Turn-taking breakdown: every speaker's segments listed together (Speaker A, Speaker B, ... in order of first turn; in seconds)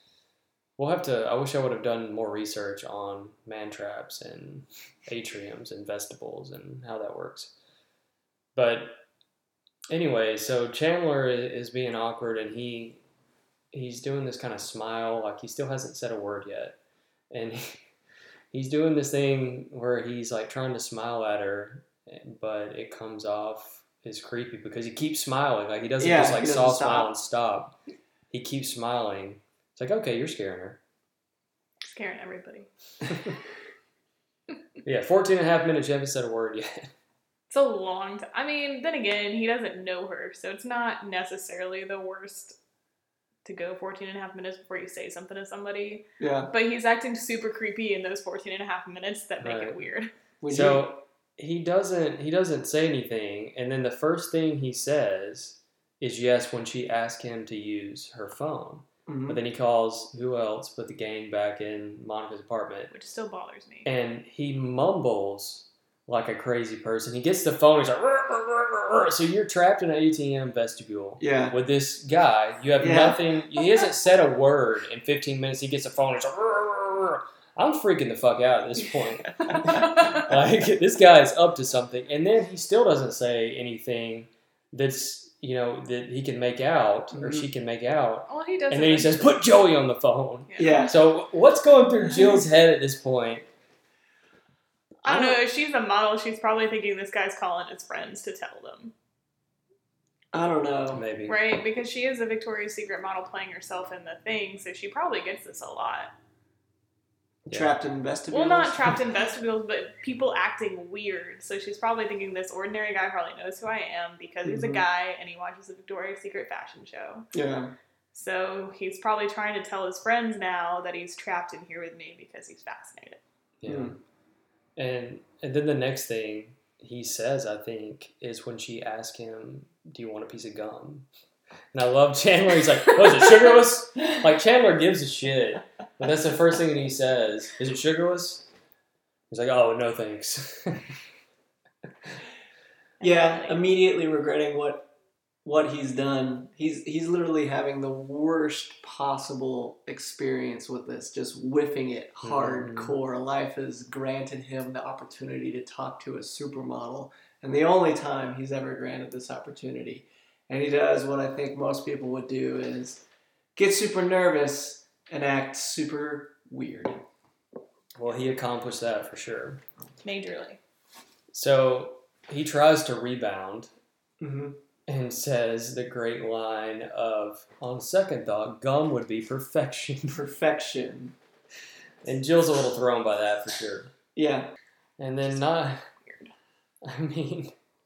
Speaker A: 0.8-7.5, 8.5-9.0, 9.9-13.0, 13.7-16.8, 17.3-17.8, 18.5-27.7, 28.3-30.8, 34.8-36.9, 49.4-49.8, 50.5-62.9, 63.8-93.5, 100.9-101.4, 107.5-107.7, 123.6-124.0, 124.8-131.1, 131.7-138.4, 139.3-141.0, 152.2-152.9, 167.9-169.6, 171.3-173.7, 174.9-180.2, 182.0-183.9, 185.0-185.8, 186.8-187.5
Speaker B: 26.0-27.1, 46.2-46.5, 50.4-50.9, 59.1-59.4, 71.2-71.5, 72.8-73.2, 87.1-87.5, 90.6-90.9, 95.0-95.4, 100.3-101.0, 107.5-108.9, 114.4-114.8, 117.3-117.7, 123.7-124.0, 143.0-144.9, 145.4-163.0, 163.6-167.0, 174.2-174.6, 180.1-181.1, 184.1-184.5
Speaker C: 31.8-32.7, 37.5-42.6, 43.4-50.1, 62.9-63.9, 88.3-89.4, 90.5-90.9, 95.0-98.9, 101.3-106.1, 108.3-117.3, 118.1-123.2, 143.0-143.7, 170.0-170.6, 186.0-186.3